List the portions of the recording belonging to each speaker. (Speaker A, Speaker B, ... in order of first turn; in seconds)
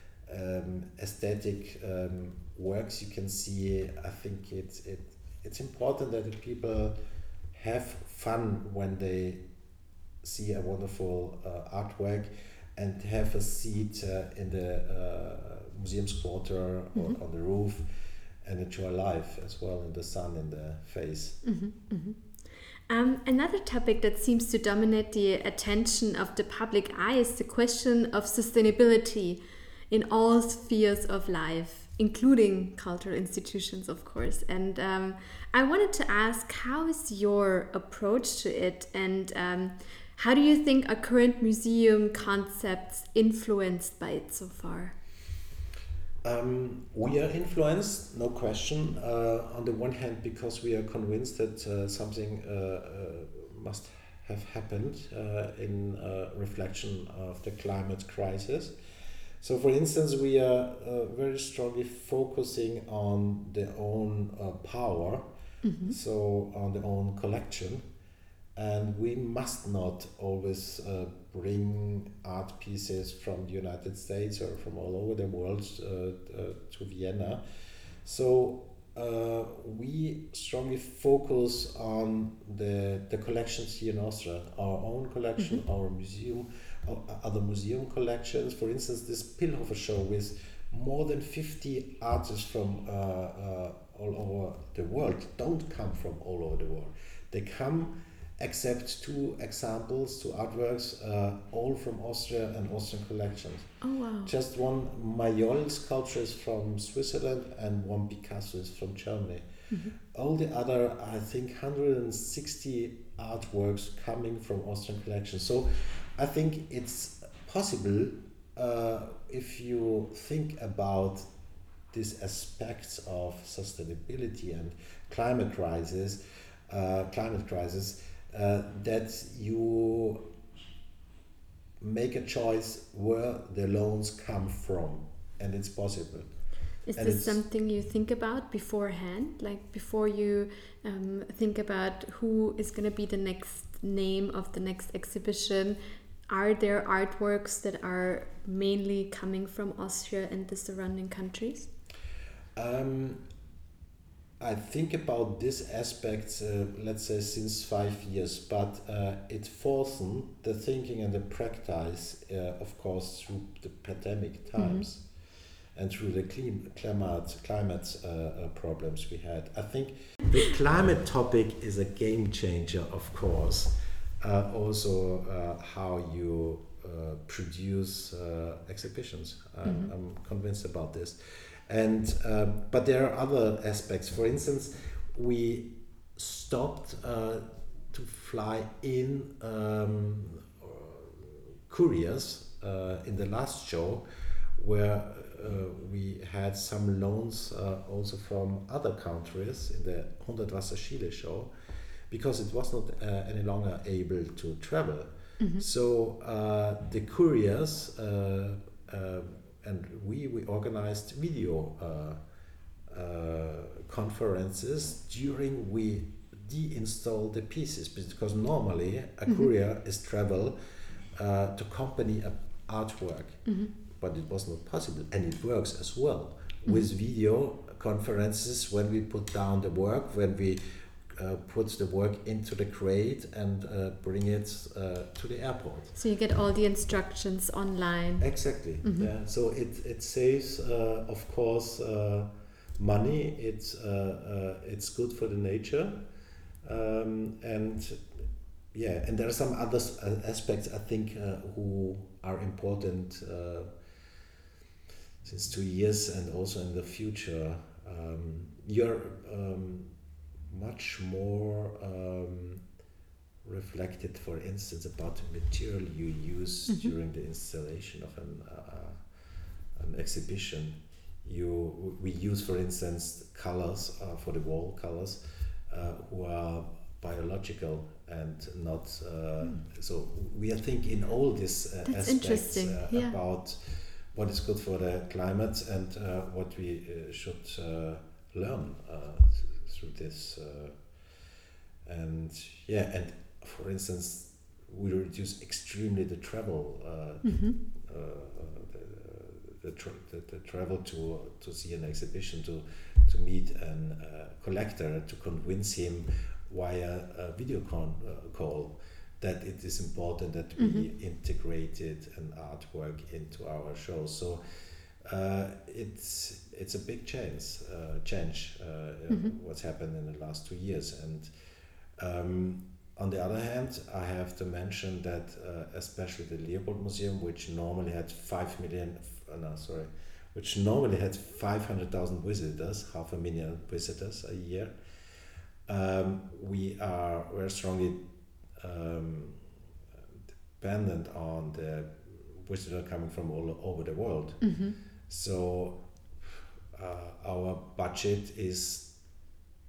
Speaker A: 0.3-7.0, 7.5-9.4, 10.2-17.9, 18.4-21.4, 46.2-58.8, 59.4-65.2, 65.9-67.8, 68.6-103.7, 104.2-121.3, 121.9-130.2, 131.8-136.3, 136.9-137.4, 152.6-153.2, 154.4-165.1, 165.8-194.0, 194.6-201.5, 202.1-212.2, 212.9-220.6, 221.2-236.0, 238.2-246.0, 246.6-248.1, 248.7-253.7, 255.2-259.9, 260.5-262.6, 263.4-269.1, 269.8-290.9, 291.9-321.3, 322.0-334.7, 335.7-338.0, 338.6-339.5, 340.6-344.4, 345.1-345.8, 346.7-348.9
Speaker B: 21.4-22.2, 22.9-45.0, 65.6-66.0, 85.4-85.6, 103.8-104.3, 136.9-145.8, 146.3-151.7, 164.6-164.8, 179.7-179.9, 205.4-205.7, 236.0-238.3, 238.8-239.1, 281.9-283.2, 297.2-297.6, 310.6-310.9, 344.4-344.8